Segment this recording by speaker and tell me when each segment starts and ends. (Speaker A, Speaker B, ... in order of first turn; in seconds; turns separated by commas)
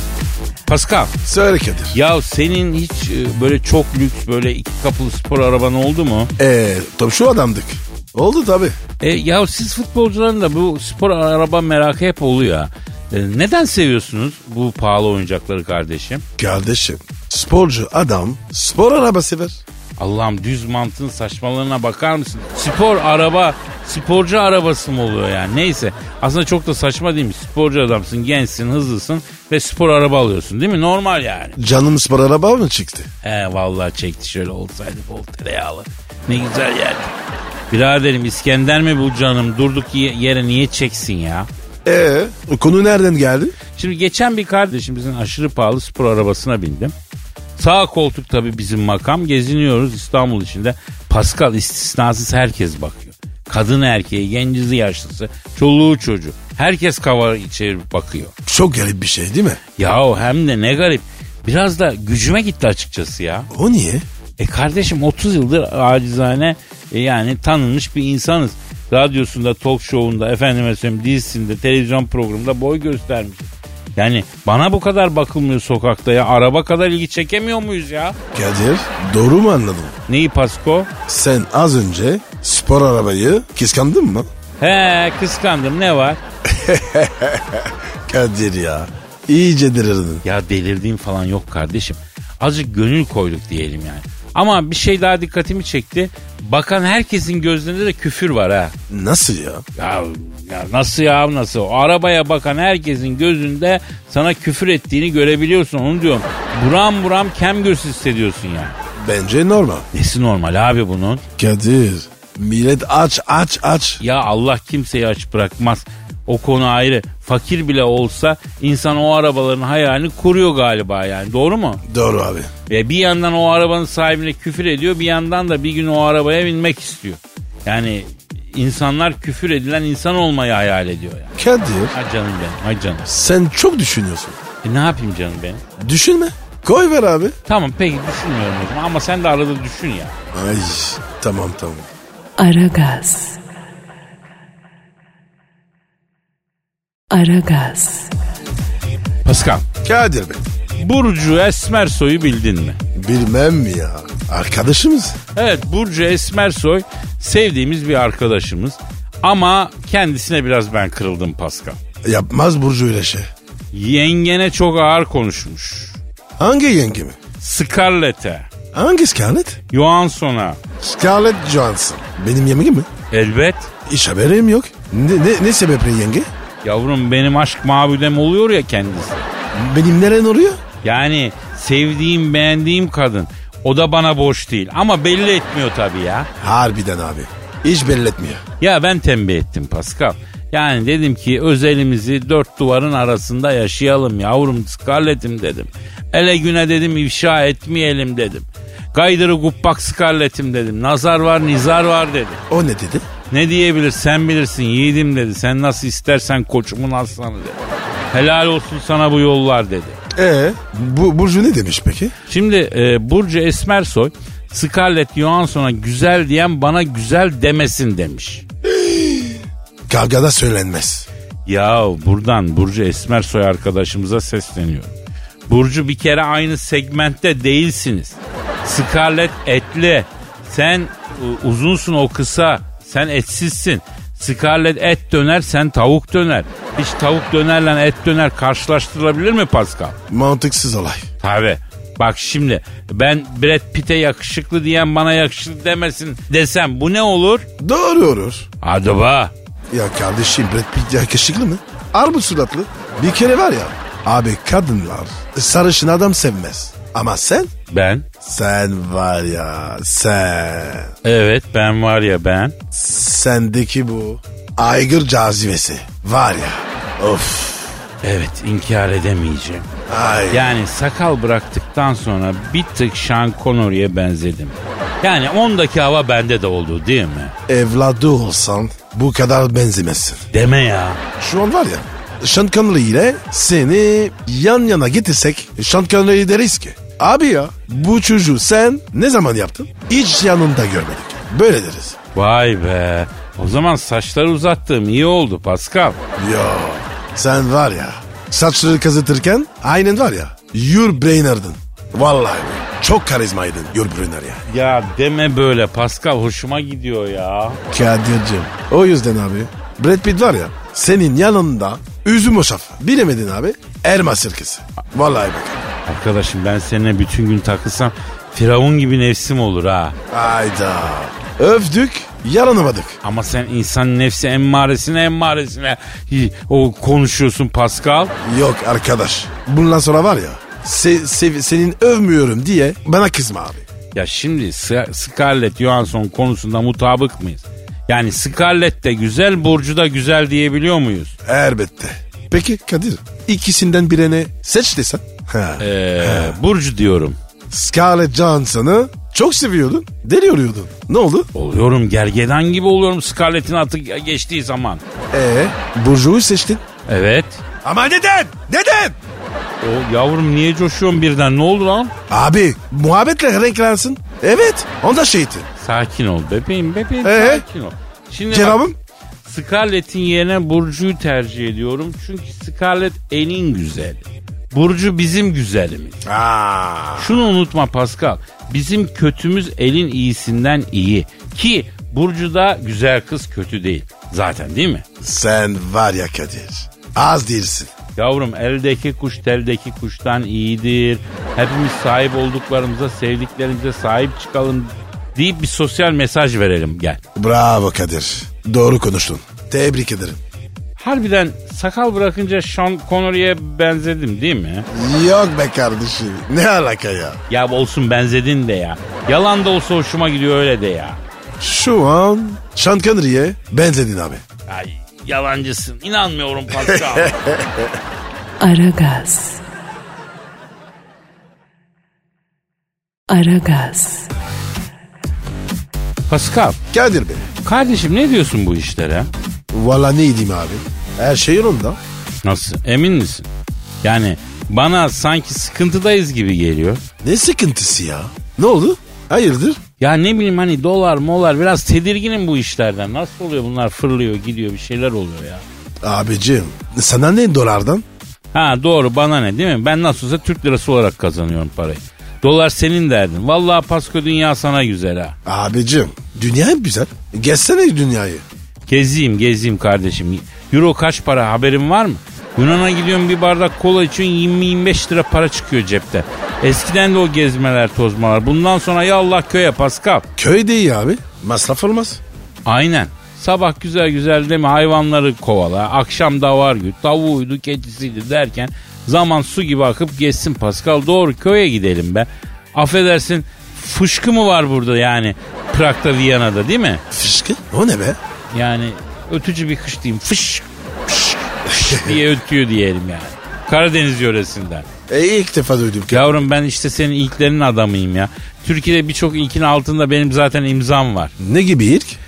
Speaker A: 0.7-1.2, Speaker B: 1.2-1.9, Speaker A: 1.9-6.3, Speaker B: 6.4-8.8, Speaker A: 9.0-16.2, Speaker B: 16.4-19.6, Speaker A: 20.0-31.6, Speaker B: 31.6-33.1, Speaker A: 33.2-37.1, Speaker A: 37.7-41.5, Speaker B: 41.8-43.5, Speaker A: 43.8-46.9, Speaker A: 47.6-58.3, Speaker B: 58.5-59.6, Speaker A: 59.8-63.5, Speaker B: 63.5-64.0, Speaker A: 64.4-78.2, Speaker B: 78.3-80.0, Speaker A: 80.1-80.9, Speaker B: 81.1-84.3, Speaker A: 84.6-86.2, Speaker B: 86.5-90.2, Speaker A: 90.2-98.7, Speaker B: 98.9-99.6, Speaker A: 99.8-108.8, Speaker B: 109.0-109.9, Speaker A: 109.9-111.2, Speaker B: 111.4-114.0, Speaker A: 114.0-121.8, Speaker B: 121.9-122.5, Speaker A: 122.7-131.3, Speaker B: 131.4-131.9, Speaker A: 131.9-133.1, Speaker B: 133.1-134.4, Speaker A: 134.6-135.6, Speaker B: 135.8-137.4, Speaker A: 137.5-140.2, Speaker B: 140.3-141.9, Speaker C: 142.4-143.4, Speaker C: 147.1-148.2, Speaker A: 149.2-149.7, Speaker B: 149.8-150.4, Speaker A: 150.8-152.8, Speaker B: 152.9-155.2, Speaker A: 155.3-161.8, Speaker B: 162.0-163.3, Speaker A: 163.7-166.0, Speaker B: 166.4-167.2, Speaker A: 167.4-168.5, Speaker B: 168.7-169.6, Speaker A: 169.7-170.6, Speaker B: 170.8-172.9, Speaker A: 173.1-173.7, Speaker B: 173.8-176.3, Speaker A: 176.6-179.2, Speaker B: 179.5-180.6, Speaker A: 180.8-186.3, Speaker B: 186.4-188.4, Speaker A: 188.6-202.4, Speaker B: 202.5-203.0, Speaker A: 203.3-207.6, Speaker A: 208.1-210.0, Speaker B: 210.1-212.1, Speaker A: 212.3-218.4, Speaker B: 218.7-221.1, Speaker A: 221.4-224.9, Speaker A: 225.5-240.0, Speaker B: 240.1-241.1, Speaker A: 241.2-247.5, Speaker B: 247.6-248.5, Speaker A: 248.6-249.3, Speaker B: 249.7-257.5, Speaker A: 257.7-258.1, Speaker B: 258.2-260.9, Speaker A: 261.0-262.5, Speaker B: 262.7-267.8, Speaker A: 268.0-269.7, Speaker B: 269.9-270.5, Speaker A: 270.3-277.3, Speaker B: 277.5-280.2, Speaker A: 280.3-281.0, Speaker B: 281.2-292.0, Speaker A: 292.1-296.0, Speaker B: 296.2-304.4, Speaker A: 304.5-307.6, Speaker B: 307.7-315.7, Speaker A: 315.9-319.9, Speaker B: 320.1-323.0, Speaker A: 323.0-328.1, Speaker B: 328.2-333.6, Speaker A: 333.9-341.1, Speaker B: 341.2-346.4, Speaker A: 345.6-347.2, Speaker B: 347.5-351.3, Speaker A: 351.3-354.8, Speaker B: 355.1-356.6, Speaker A: 356.9-357.4, Speaker B: 357.6-358.9, Speaker A: 359.6-361.9, Speaker B: 362.1-365.5, Speaker A: 365.6-368.6, Speaker B: 367.0-367.4, Speaker B: 368.3-368.8, Speaker A: 369.2-376.0, Speaker B: 376.0-377.1, Speaker A: 377.0-384.8, Speaker B: 385.0-387.7, Speaker A: 387.9-397.0, Speaker B: 397.1-400.2, Speaker A: 400.8-404.7, Speaker B: 404.7-407.2, Speaker A: 407.3-411.0, Speaker B: 411.4-414.2, Speaker A: 414.5-417.2, Speaker B: 416.8-417.7, Speaker C: 418.4-419.4, Speaker C: 423.1-424.1, Speaker A: 426.1-426.6, Speaker B: 426.7-427.3, Speaker A: 427.4-429.1, Speaker B: 429.5-431.8, Speaker A: 432.2-433.3, Speaker A: 433.8-436.8, Speaker B: 437.0-439.6, Speaker A: 439.8-445.4, Speaker B: 445.8-447.8, Speaker A: 448.3-455.1, Speaker B: 455.2-458.2, Speaker A: 458.7-470.1, Speaker B: 470.2-472.0, Speaker A: 472.4-486.8, Speaker B: 486.9-488.0, Speaker A: 488.3-494.6, Speaker B: 491.6-492.0, Speaker B: 494.9-496.1, Speaker A: 495.9-501.1, Speaker B: 501.2-502.0